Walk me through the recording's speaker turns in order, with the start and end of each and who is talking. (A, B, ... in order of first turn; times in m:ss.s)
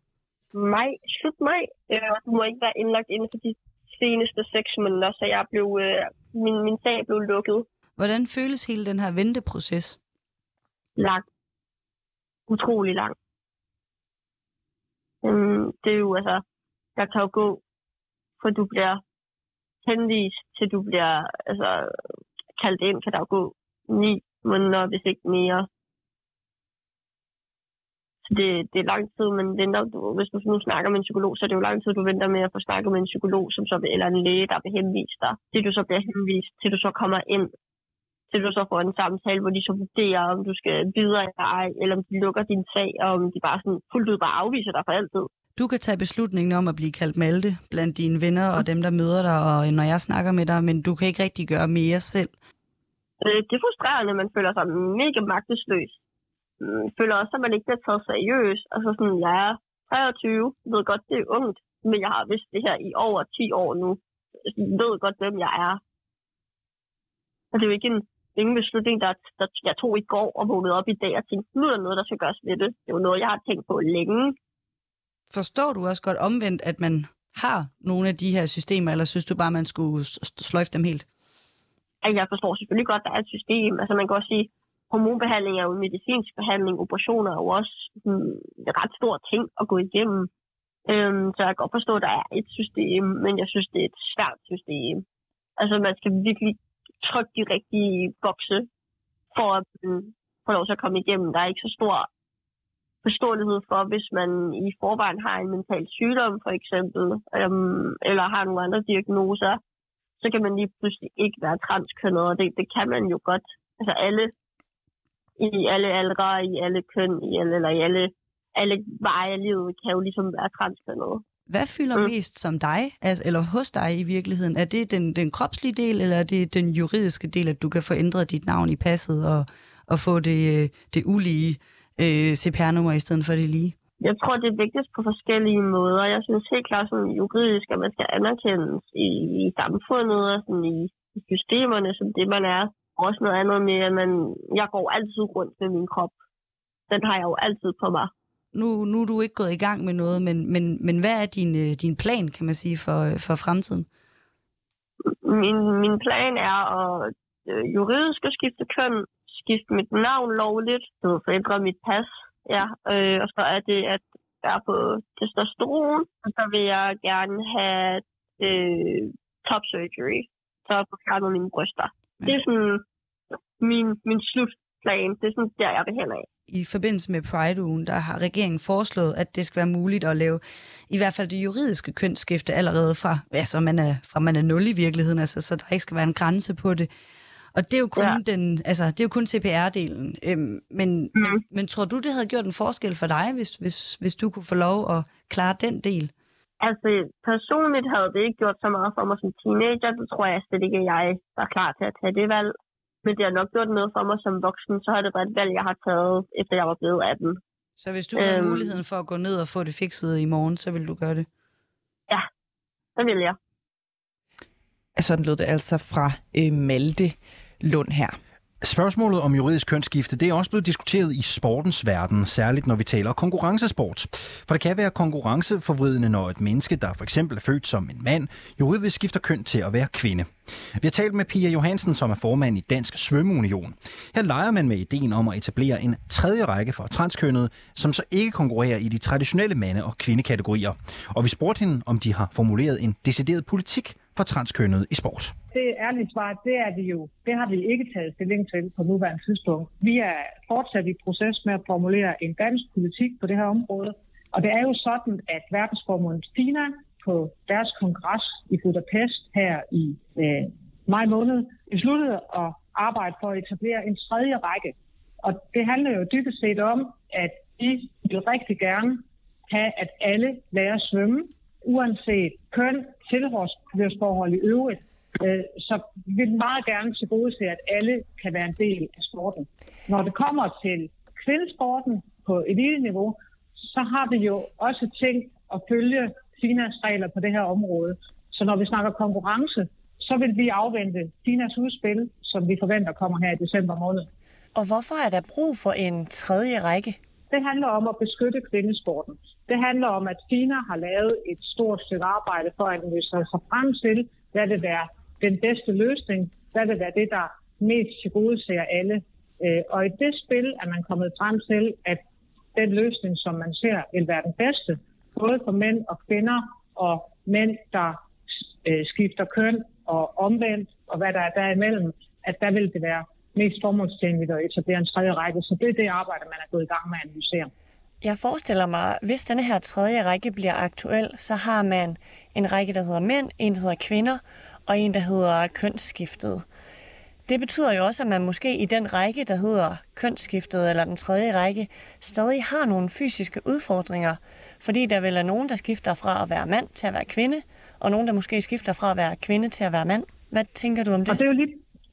0:00.5-0:07.7 A
0:08.0-0:10.0 B
0:11.0-0:11.2 A
0:12.5-0:13.2 A
0:15.2-0:16.4 A
0:17.0-0:17.6 A
0:18.4-0:19.0 A
0:19.8-0:21.9 A
0:22.6-0:25.7 A
0:28.3-0:37.5 A
0:38.3-0:45.3 A
0:45.6-0:52.3 B
0:53.2-0:56.0 A
0:56.6-1:05.8 A
1:07.5-1:14.4 A
1:15.3-1:21.0 B
1:22.0-1:30.3 A
1:30.9-1:35.0 A
1:35.6-1:38.7 A
1:39.3-1:42.1 A
1:43.0-1:49.6 A
1:50.2-1:54.3 A
1:55.4-2:01.2 A
2:01.5-2:13.8 B
2:14.0-2:26.2 A
2:26.9-2:28.1 A
2:28.5-2:33.9 B
2:35.1-2:52.8 A
2:53.6-2:56.3 A
2:56.5-3:06.9 B
3:07.5-3:16.1 B
3:11.2-3:11.4 A
3:16.6-3:27.4 A
3:27.8-3:31.3 B
3:28.1-3:28.8 A
3:33.0-3:33.4 A
3:35.0-3:38.2 C
3:38.6-4:05.3 D
4:05.5-4:43.2 E
4:43.7-4:54.1 E
4:54.5-4:57.0 F
4:57.3-5:12.0 E
5:12.5-5:18.0 E
5:18.6-5:27.5 E
5:28.0-5:36.4 F
5:37.3-5:51.2 F
5:51.0-5:51.6 E